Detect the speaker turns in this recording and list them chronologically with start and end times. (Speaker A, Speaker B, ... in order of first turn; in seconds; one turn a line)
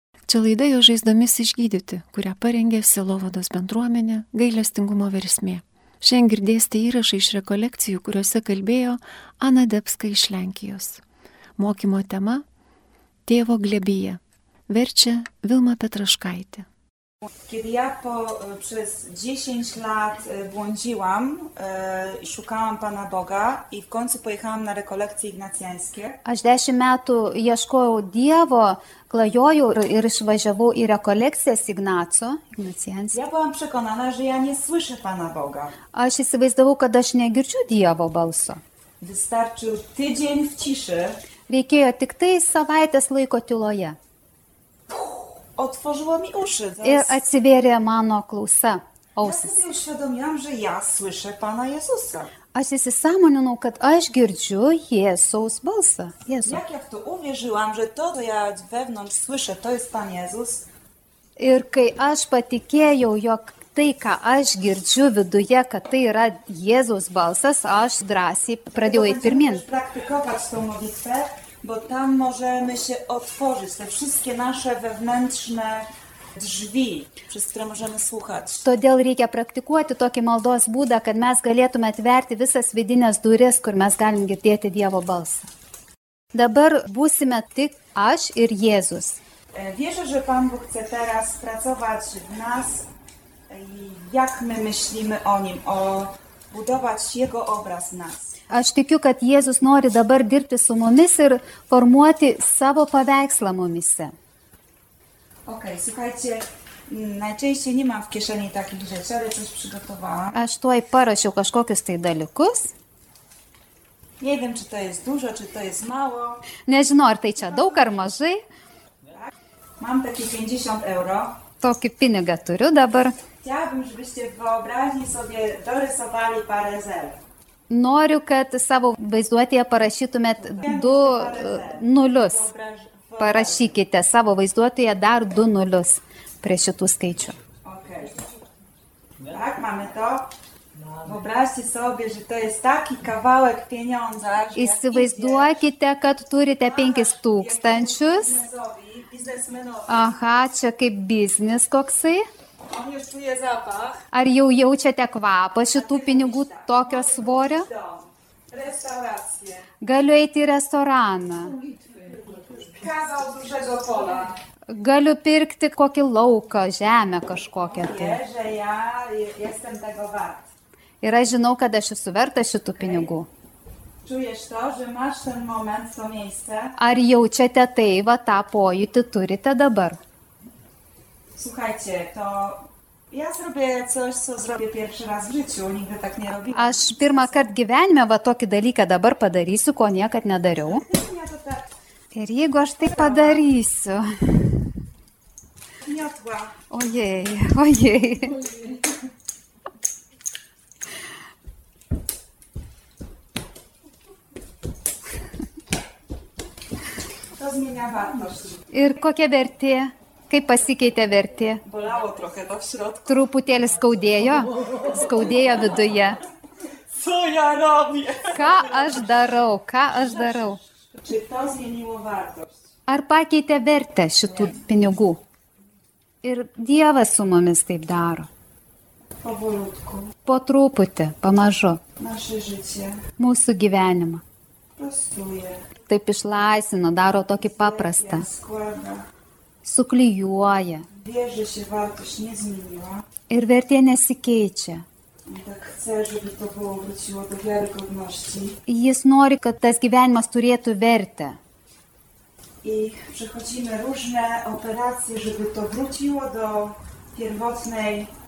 Speaker A: 0.3-11.0
Speaker A: 11.6-12.4
Speaker A: 13.2-16.6
Speaker B: 17.5-26.2
Speaker C: 26.2-33.2
Speaker B: 33.1-35.8
Speaker C: 35.9-38.6
Speaker B: 39.0-41.2
Speaker C: 41.5-44.0
Speaker B: 44.9-47.2
Speaker C: 46.8-49.6
Speaker B: 49.2-52.3
Speaker C: 52.5-56.6
Speaker B: 56.4-60.7
Speaker C: 61.4-69.6
Speaker B: 68.7-78.7
Speaker C: 78.6-85.5
Speaker C: 86.3-89.2
Speaker B: 89.5-92.8
Speaker B: 93.5-98.3
Speaker C: 98.5-104.1
Speaker B: 105.5-110.4
Speaker C: 110.3-112.7
Speaker B: 114.2-116.5
Speaker C: 116.6-118.4
Speaker B: 117.5-117.8
Speaker B: 119.1-121.4
Speaker C: 121.6-123.2
Speaker B: 123.4-127.2
Speaker C: 127.7-132.5
Speaker B: 130.4-133.7
Speaker C: 133.2-137.4
Speaker B: 137.6-138.2
Speaker B: 139.2-140.3
Speaker B: 140.9-145.7
Speaker C: 144.5-148.4
Speaker B: 146.6-150.2
Speaker C: 149.9-152.2
Speaker B: 152.7-154.0
Speaker C: 154.1-157.7
Speaker B: 155.7-159.7
Speaker C: 159.8-161.6
Speaker B: 161.9-164.4
Speaker C: 164.7-168.2
Speaker B: 167.7-170.5
Speaker C: 171.0-173.3
Speaker B: 172.8-173.1
Speaker B: 174.0-176.8
Speaker C: 176.8-180.0
Speaker B: 181.4-187.5
Speaker C: 186.5-190.9
Speaker B: 190.7-191.7
Speaker C: 192.1-194.7
Speaker B: 192.8-193.4
Speaker B: 195.8-196.6
Speaker C: 196.7-198.6
Speaker B: 207.4-208.7
Speaker C: 208.7-211.6
Speaker B: 211.6-213.2
Speaker C: 213.1-216.2
Speaker B: 216.9-219.3
Speaker C: 218.3-220.6
Speaker B: 219.9-222.6
Speaker C: 222.9-225.2
Speaker B: 224.3-224.8
Speaker C: 226.2-228.3
Speaker B: 229.2-230.1
Speaker C: 230.2-231.8
Speaker B: 232.0-233.0
Speaker C: 233.2-234.2
Speaker B: 234.8-235.7
Speaker C: 235.9-238.2
Speaker B: 237.4-239.1
Speaker C: 239.6-240.9
Speaker B: 240.9-243.0
Speaker C: 243.3-244.8
Speaker B: 245.2-248.6
Speaker C: 248.7-251.4
Speaker B: 252.6-258.1